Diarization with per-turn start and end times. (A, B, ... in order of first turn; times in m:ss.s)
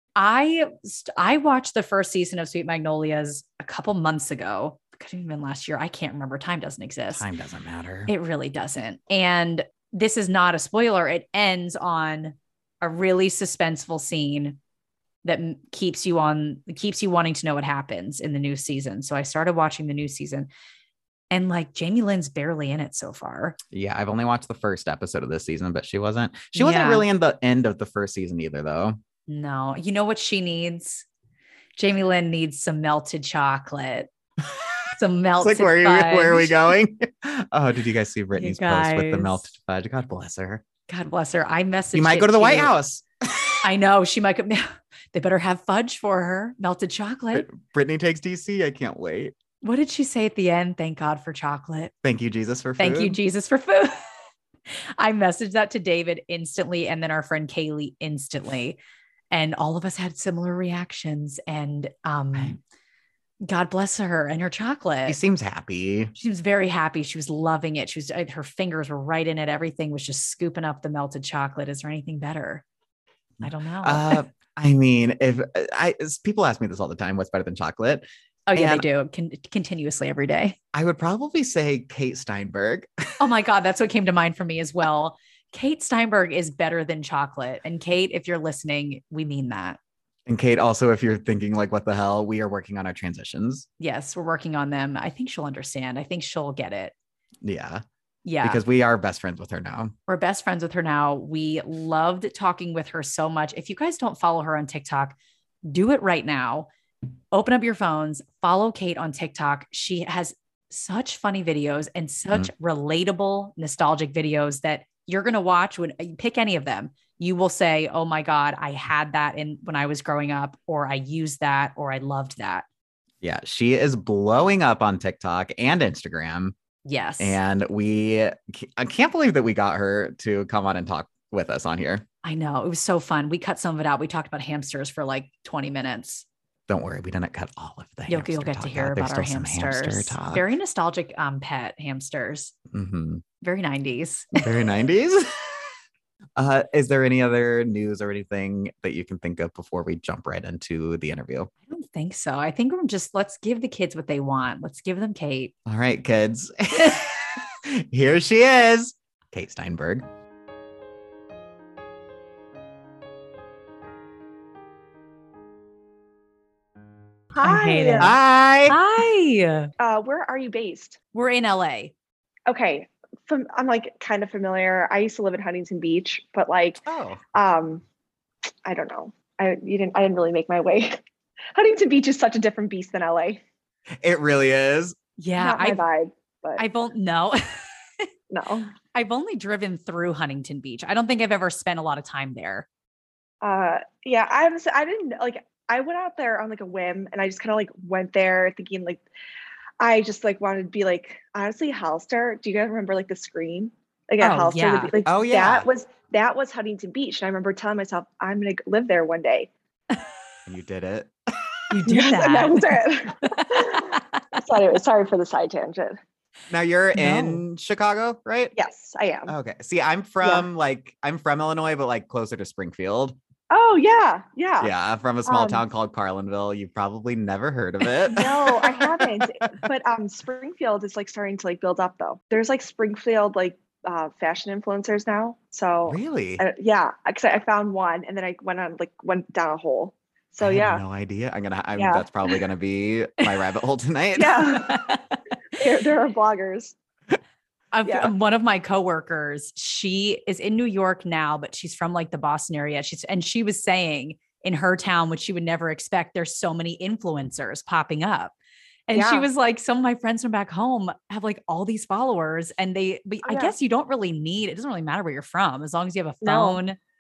0:00.2-0:07.2 A
0:07.1-0:08.1 B
0:08.1-0:14.6 A
0:15.2-0:20.5 A
0:21.3-0:23.6 A
0:23.7-0:29.0 B
0:26.5-0:27.1 A
0:29.3-0:31.1 A
0:31.8-0:34.1 A
0:35.0-0:36.6 A
0:35.4-0:40.6 B
0:38.4-0:39.4 A
0:40.9-0:42.7 A
0:41.9-0:43.6 B
0:43.6-0:47.5 A
0:47.3-0:49.4 B
0:49.6-0:51.9 A
0:52.0-0:53.2 B
0:52.8-0:54.0 A
0:54.7-0:58.8 A
0:59.3-1:02.6 A
1:03.5-1:05.2 A
1:05.1-1:06.1 B
1:06.2-1:12.6 A
1:13.4-1:18.8 B
1:13.4-1:14.2 A
1:18.5-1:20.6 A
1:20.7-1:22.9 B
1:23.2-1:29.8 A
1:30.3-1:33.7 B
1:33.8-1:36.9 A
1:37.4-1:37.8 B
1:38.2-1:38.6 A
1:38.4-1:39.9 B
1:40.1-1:46.7 A
1:47.3-2:02.7 A
2:03.2-2:06.6 B
2:06.8-2:07.4 A
2:07.2-2:12.0 B
2:12.2-2:16.2 A
2:16.7-2:20.4 B
2:18.1-2:22.5 A
2:22.7-2:23.2 B
2:23.4-2:24.5 A
2:24.4-2:25.3 B
2:26.4-2:31.5 B
2:31.7-2:35.6 A
2:35.6-2:40.1 B
2:47.4-2:48.2 A
2:47.4-2:48.2 C
2:48.0-2:48.8 B
2:48.7-2:49.7 A
2:49.8-2:51.0 C
2:51.1-2:51.9 A
2:52.5-2:56.8 C
2:56.9-2:57.2 B
2:57.3-2:57.8 C
2:58.6-3:01.0 C
3:01.5-3:03.4 C
3:04.0-3:05.0 B
3:05.2-3:05.8 A
3:05.4-3:06.6 C
3:06.6-3:08.1 A
3:08.3-3:08.7 C
3:08.9-3:12.7 A
3:13.4-3:19.0 C
3:19.8-3:29.5 C
3:24.2-3:24.9 A
3:25.1-3:25.7 B
3:30.5-3:31.1 B
3:31.7-3:34.4 A
3:31.9-3:36.0 C
3:36.5-3:38.5 B
3:37.0-3:37.4 A
3:38.6-3:39.3 C
3:39.3-3:43.2 B
3:40.2-3:40.5 C
3:43.5-3:44.7 C
3:44.6-3:49.6 B
3:45.2-3:45.6 C
3:48.2-4:00.8 C
3:55.9-3:56.4 B
4:00.4-4:04.4 B
4:01.8-4:02.0 C
4:04.1-4:04.7 C
4:04.4-4:05.4 A
4:05.6-4:06.8 C
4:07.7-4:18.4 A
4:07.8-4:08.1 C
4:18.9-4:26.8 A
4:18.9-4:19.3 C
4:23.2-4:23.6 C
4:26.2-4:26.6 C